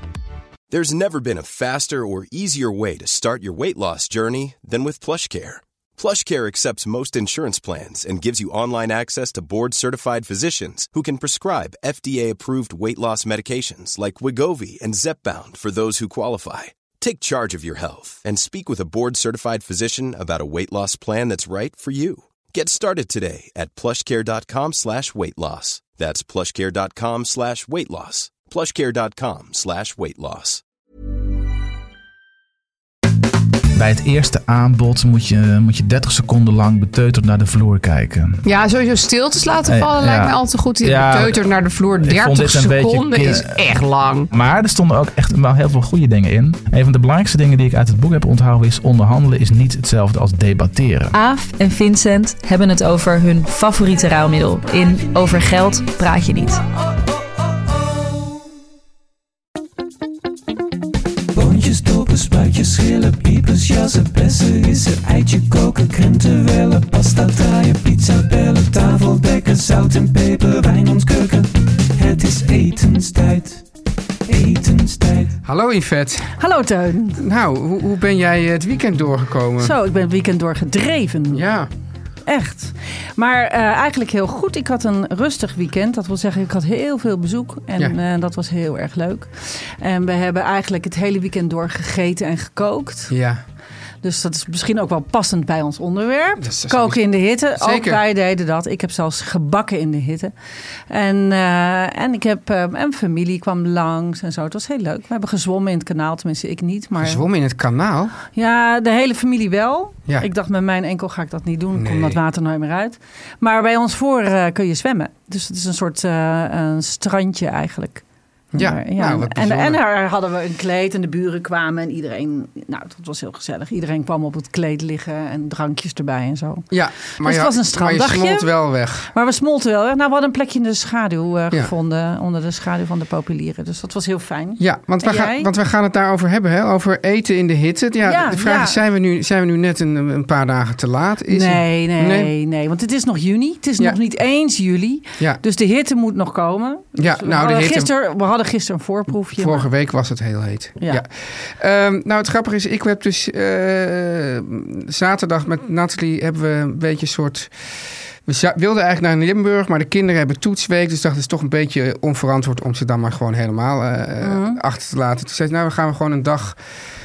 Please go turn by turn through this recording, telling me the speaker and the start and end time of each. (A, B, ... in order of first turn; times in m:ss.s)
0:00.7-0:30.6 A
0:33.8-0:38.4 B
0:38.4-0:44.3 C
0:39.6-0:43.7 B
0:44.3-0:51.1 B
0:51.1-0:56.6 D
1:01.3-1:13.6 E
1:14.3-1:15.3 E
1:15.4-1:16.4 F
1:16.4-1:17.2 G
1:17.2-1:19.8 F
1:19.6-1:21.4 G
1:21.3-1:21.7 F
1:22.2-1:33.1 G
1:33.1-1:33.4 F
1:34.0-1:40.3 G
1:36.4-1:37.0 F
1:37.6-1:38.0 F
1:40.9-1:47.2 G
1:47.0-1:48.2 F
1:48.3-1:58.0 G
1:51.7-1:52.2 F
1:58.5-1:59.8 F
1:58.6-2:08.5 G
2:06.7-2:09.1 F
2:09.1-2:15.5 G
2:14.6-2:22.3 F
2:18.0-2:18.8 G
2:21.3-2:29.7 G
2:26.9-2:27.9 F
2:29.4-2:37.5 F
2:38.2-2:46.6 F
2:44.2-2:44.6 G